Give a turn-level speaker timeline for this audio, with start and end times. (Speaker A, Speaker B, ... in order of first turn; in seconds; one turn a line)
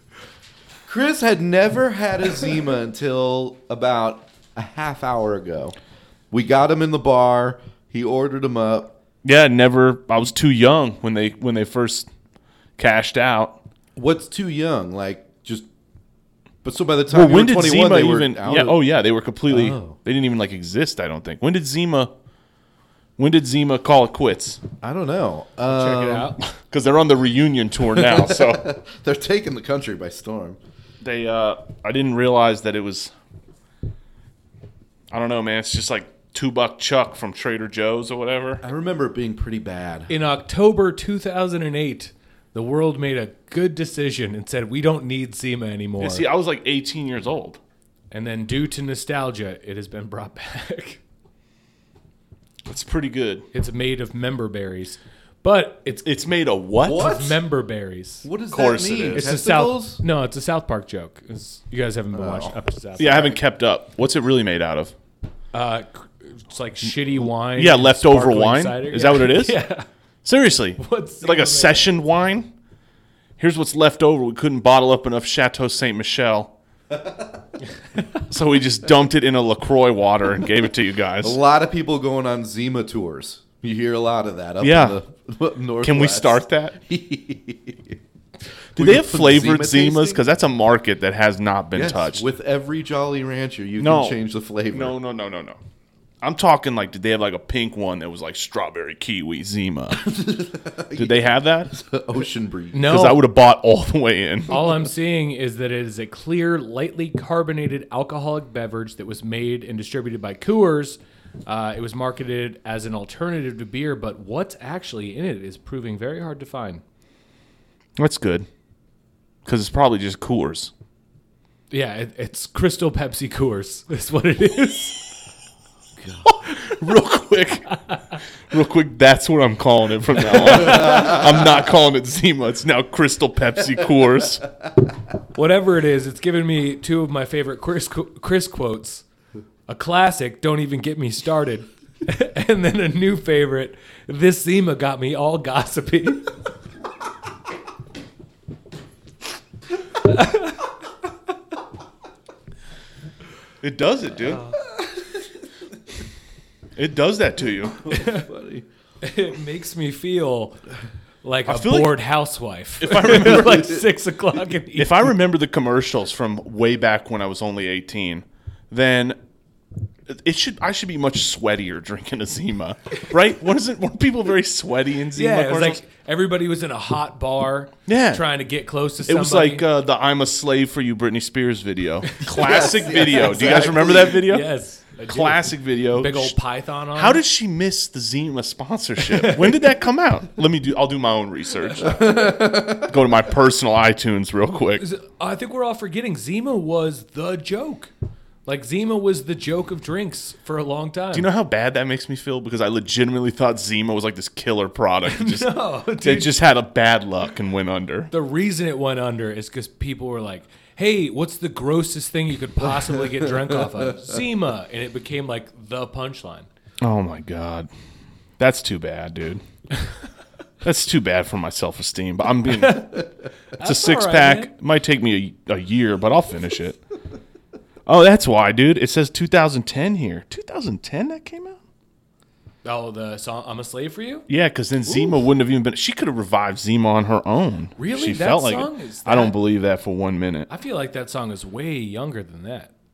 Speaker A: 0.8-5.8
Speaker A: 6.3-8.9
Speaker B: 9.2-12.1
Speaker B: 12.8-13.6
Speaker A: 13.9-15.7
Speaker A: 16.6-18.8
Speaker B: 17.1-22.1
Speaker A: 19.5-20.0
Speaker B: 23.2-24.6
Speaker A: 24.8-26.3
Speaker C: 25.7-26.4
Speaker B: 26.5-28.7
Speaker A: 27.9-30.6
Speaker B: 31.0-33.1
Speaker B: 35.1-38.6
Speaker A: 38.6-40.1
Speaker C: 40.1-46.2
Speaker B: 46.0-47.6
Speaker C: 48.1-51.0
Speaker B: 52.6-53.5
Speaker C: 53.5-56.0
Speaker B: 56.0-57.1
Speaker A: 56.8-57.4
Speaker C: 56.9-58.3
Speaker A: 58.2-60.0
Speaker B: 58.5-59.2
Speaker C: 59.1-63.4
Speaker A: 62.1-62.5
Speaker B: 63.0-64.9
Speaker C: 65.5-69.8
Speaker B: 67.5-69.6
Speaker B: 70.2-72.5
Speaker C: 70.8-71.9
Speaker B: 73.4-76.5
Speaker A: 77.0-77.2
Speaker B: 78.2-81.4
Speaker A: 81.2-88.0
Speaker B: 84.6-85.0
Speaker B: 85.8-86.8
Speaker B: 88.8-92.2
Speaker A: 88.8-90.2
Speaker A: 91.7-95.0
Speaker B: 93.8-94.2
Speaker B: 94.7-95.6
Speaker B: 96.2-100.1
Speaker A: 100.0-103.0
Speaker B: 100.9-101.7
Speaker C: 102.7-103.2
Speaker B: 102.8-104.6
Speaker C: 104.5-116.8
Speaker B: 118.0-118.5
Speaker B: 119.5-120.7
Speaker C: 121.7-125.1
Speaker B: 126.2-127.8
Speaker B: 128.5-134.4
Speaker C: 130.3-131.2
Speaker C: 135.3-139.0
Speaker C: 139.7-146.3
Speaker C: 150.0-150.7
Speaker B: 153.6-154.4
Speaker C: 154.2-154.6
Speaker B: 156.8-157.9
Speaker A: 157.8-158.7
Speaker C: 157.9-158.2
Speaker C: 159.0-160.6
Speaker C: 161.2-165.1
Speaker B: 161.5-162.0
Speaker B: 162.8-163.8
Speaker B: 164.8-169.2
Speaker B: 170.1-175.8
Speaker C: 175.1-179.6
Speaker B: 177.9-178.2
Speaker B: 179.1-184.4
Speaker C: 182.1-187.2
Speaker A: 182.4-184.2
Speaker B: 185.1-186.3
Speaker B: 186.9-194.8
Speaker C: 189.1-189.6
Speaker A: 191.8-192.9
Speaker C: 194.8-197.9
Speaker C: 198.4-201.3
Speaker B: 201.1-208.1
Speaker C: 205.1-206.3
Speaker C: 208.1-216.5
Speaker B: 216.8-217.7
Speaker B: 218.4-219.4
Speaker B: 220.6-223.1
Speaker C: 223.6-224.5
Speaker B: 223.6-226.8
Speaker B: 227.8-231.6
Speaker C: 232.6-234.2
Speaker B: 234.3-240.5
Speaker C: 237.8-239.3
Speaker C: 240.5-242.7